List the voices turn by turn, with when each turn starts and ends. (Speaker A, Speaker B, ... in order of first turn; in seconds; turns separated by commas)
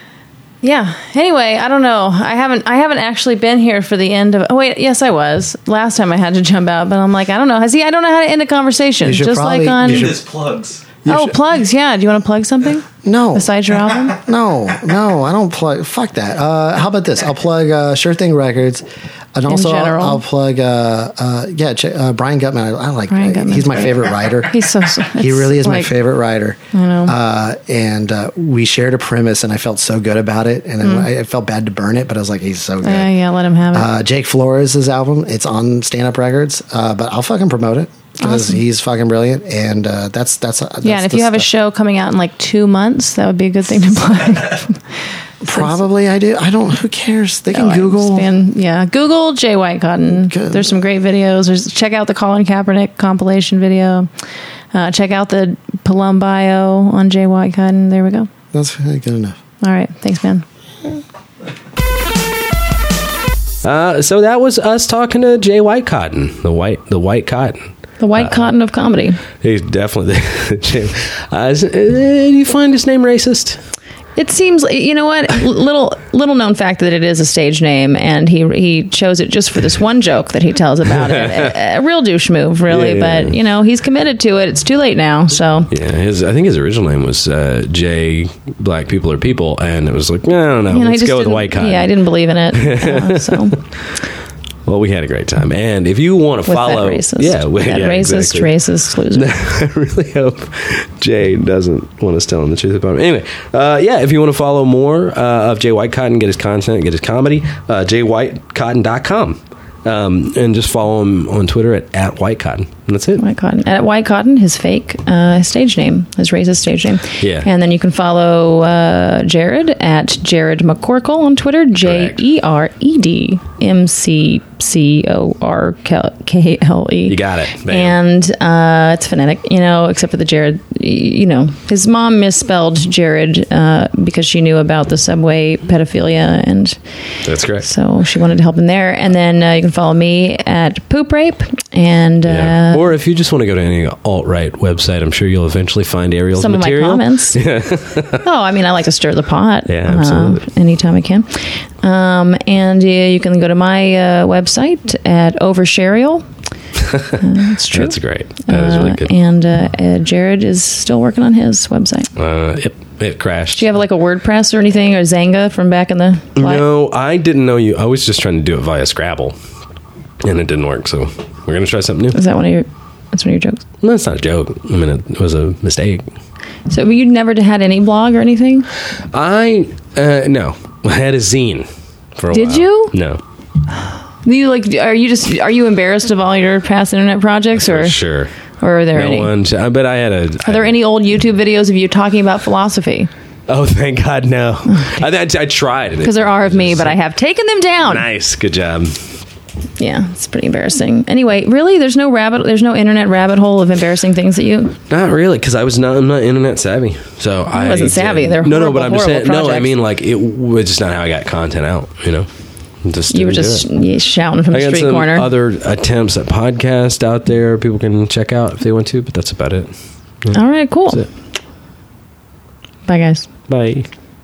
Speaker A: 0.6-10.2, Speaker B: 9.0-11.4, Speaker A: 11.1-14.2, Speaker B: 13.0-33.1, Speaker A: 19.5-20.2, Speaker A: 23.1-25.9, Speaker A: 26.7-27.1, Speaker A: 32.8-33.9, Speaker B: 33.7-41.5, Speaker A: 38.2-38.6, Speaker A: 40.8-44.8, Speaker B: 45.4-48.3, Speaker A: 47.5-54.1, Speaker B: 50.1-50.7, Speaker A: 54.7-58.3, Speaker B: 58.5-59.4, Speaker A: 59.6-60.4, Speaker C: 63.6-68.5, Speaker A: 68.0-69.2, Speaker C: 69.3-73.6, Speaker A: 74.2-85.7, Speaker C: 82.7-83.3, Speaker C: 85.7-92.0, Speaker A: 90.7-93.6, Speaker C: 92.5-93.5, Speaker C: 94.7-98.6, Speaker A: 96.5-99.4, Speaker C: 99.1-113.2, Speaker A: 113.2-136.8, Speaker C: 117.2-117.5, Speaker C: 121.8-122.2, Speaker C: 127.1-128.0, Speaker C: 137.2-137.7, Speaker A: 137.6-142.9, Speaker C: 142.2-148.2, Speaker A: 146.3-147.4, Speaker A: 148.2-156.2, Speaker C: 149.7-150.4, Speaker A: 157.2-162.1, Speaker C: 157.7-159.1, Speaker C: 162.2-163.6, Speaker A: 163.5-166.6, Speaker C: 166.3-169.3, Speaker C: 170.2-172.2, Speaker A: 172.1-173.6, Speaker C: 173.8-176.1, Speaker A: 176.7-178.7, Speaker C: 179.1-183.2, Speaker A: 182.3-182.9, Speaker A: 184.2-188.0, Speaker C: 187.6-188.3, Speaker A: 188.6-189.3, Speaker C: 188.9-190.8, Speaker A: 190.4-193.1, Speaker C: 193.5-197.0, Speaker A: 194.7-195.0, Speaker A: 196.0-198.1, Speaker C: 197.8-199.0, Speaker A: 199.8-204.8, Speaker C: 204.9-212.3, Speaker A: 207.5-209.7, Speaker C: 212.8-213.7, Speaker A: 213.1-215.3, Speaker C: 214.5-219.7, Speaker A: 220.3-221.1, Speaker A: 222.9-223.3, Speaker C: 223.5-223.9